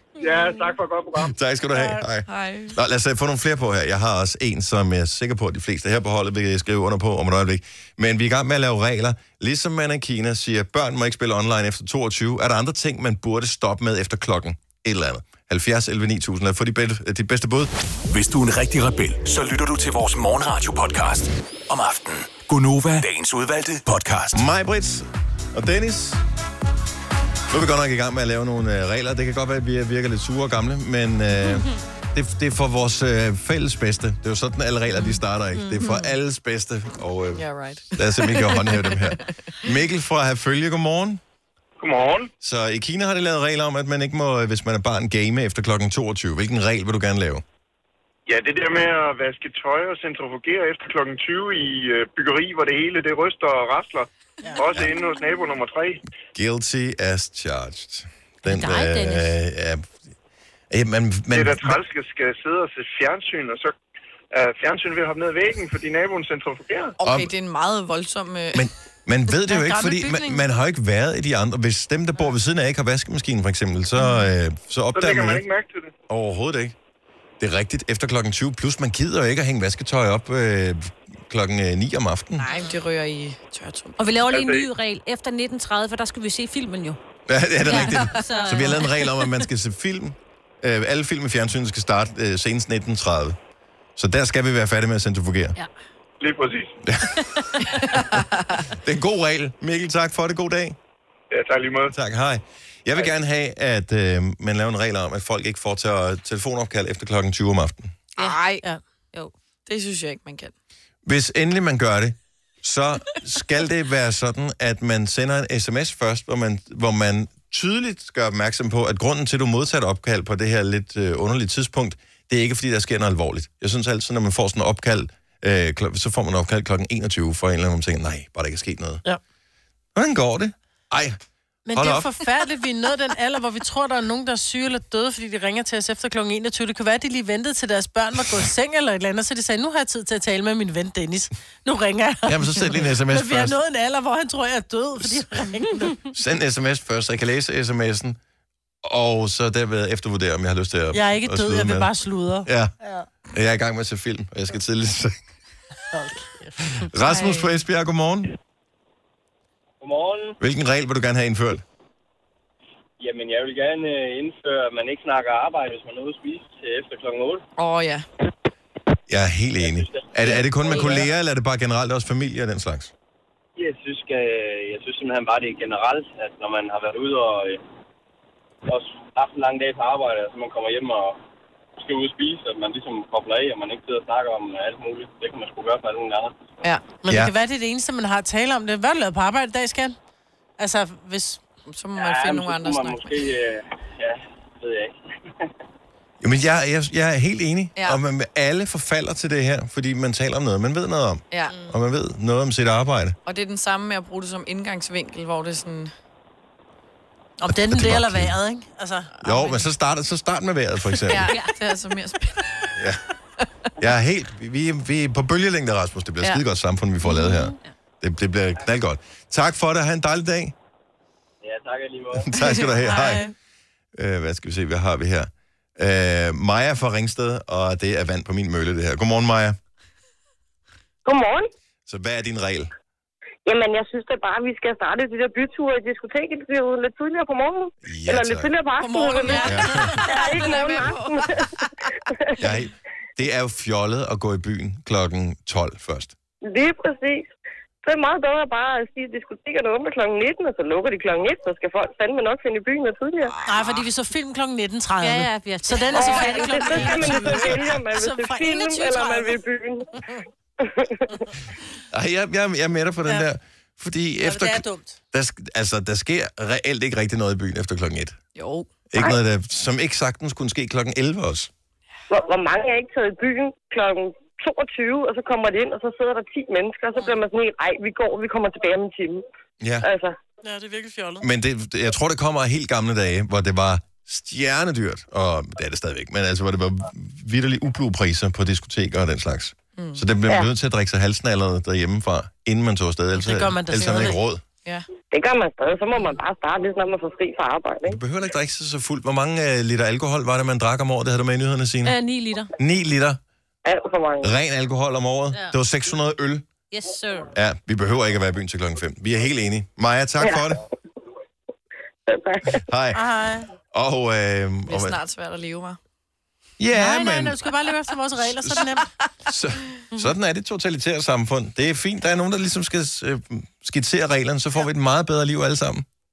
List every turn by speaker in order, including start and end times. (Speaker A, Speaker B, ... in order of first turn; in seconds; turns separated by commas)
Speaker A: 0.2-1.3, Speaker B: 1.2-17.7, Speaker C: 1.8-2.0, Speaker D: 2.3-2.8, Speaker E: 18.1-24.4, Speaker B: 24.3-26.2, Speaker B: 27.5-41.2, Speaker D: 35.8-36.1, Speaker D: 37.3-39.3, Speaker F: 41.8-42.3, Speaker B: 42.4-47.4, Speaker F: 48.3-56.0, Speaker B: 56.3-60.0, Speaker G: 58.5-59.3, Speaker B: 60.7-61.8, Speaker F: 61.3-63.8, Speaker F: 64.3-67.0, Speaker D: 67.0-68.7, Speaker B: 67.0-67.3, Speaker B: 68.5-75.5, Speaker D: 69.5-70.3, Speaker F: 75.0-75.9, Speaker B: 76.1-76.8, Speaker B: 77.4-82.5, Speaker D: 82.4-84.0, Speaker G: 84.0-87.0, Speaker F: 84.3-84.7, Speaker B: 87.3-93.4, Speaker G: 87.6-89.1, Speaker D: 87.8-88.5, Speaker B: 94.0-95.6, Speaker F: 96.2-96.8, Speaker B: 96.8-97.2, Speaker D: 97.6-98.6, Speaker B: 98.8-100.8, Speaker F: 101.3-101.9, Speaker B: 101.9-108.0, Speaker D: 108.2-108.6, Speaker D: 109.7-110.5, Speaker B: 111.0-129.0, Speaker B: 129.9-131.2, Speaker C: 131.7-146.1, Speaker B: 131.8-132.1, Speaker B: 142.3-143.6, Speaker B: 146.1-148.2, Speaker B: 148.8-151.9, Speaker C: 150.9-153.1, Speaker B: 152.4-152.7, Speaker B: 153.3-155.2, Speaker C: 155.9-156.9, Speaker B: 156.8-158.3, Speaker D: 157.1-157.5, Speaker A: 159.8-160.4, Speaker B: 160.4-161.6, Speaker A: 163.0-167.4, Speaker D: 167.6-168.1, Speaker B: 169.1-172.9, Speaker A: 169.6-171.1, Speaker D: 170.7-171.0, Speaker A: 173.6-177.6, Speaker A: 178.7-181.2, Speaker A: 181.8-186.4, Speaker C: 187.0-190.0, Speaker B: 187.1-187.3, Speaker C: 190.6-191.4, Speaker D: 191.7-193.2, Speaker A: 192.0-195.5, Speaker B: 196.2-203.2, Speaker D: 201.3-201.7, Speaker D: 203.3-205.9, Speaker C: 207.4-209.3, Speaker B: 207.5-208.3, Speaker B: 209.2-211.3, Speaker D: 211.1-212.7, Speaker G: 211.3-211.5, Speaker B: 213.8-220.6, Speaker A: 221.4-222.3, Speaker B: 222.2-223.3, Speaker D: 222.4-222.7, Speaker C: 222.8-223.3, Speaker B: 224.0-229.6, Speaker H: 231.1-231.5, Speaker B: 231.9-232.7, Speaker H: 233.5-241.5, Speaker B: 237.8-238.5, Speaker D: 238.8-241.7, Speaker B: 239.4-240.0, Speaker B: 242.4-246.1, Speaker H: 246.4-247.3, Speaker H: 247.8-253.4, Speaker C: 253.5-259.4, Speaker G: 255.0-257.5, Speaker H: 255.9-259.9, Speaker H: 260.6-261.2, Speaker B: 261.9-268.2, Speaker C: 264.2-265.0, Speaker D: 268.4-268.7, Speaker B: 268.9-271.5, Speaker H: 272.1-279.2, Speaker H: 279.8-280.2, Speaker C: 280.4-281.3, Speaker B: 281.2-294.4, Speaker D: 289.8-290.1, Speaker C: 293.1-294.2, Speaker D: 293.8-294.9, Speaker H: 295.1-298.0, Speaker B: 297.9-301.9, Speaker G: 301.8-302.5, Speaker B: 302.6-303.2, Speaker H: 303.6-304.3, Speaker B: 304.2-306.5, Speaker G: 306.7-307.3, Speaker B: 307.4-310.6, Speaker H: 310.2-310.5, Speaker H: 312.1-312.6, Speaker B: 312.7-313.0, Speaker C: 312.9-313.5, Speaker B: 313.7-315.0, Speaker D: 314.7-315.8, Speaker B: 316.6-317.4, Speaker C: 316.7-318.9, Speaker B: 319.3-325.9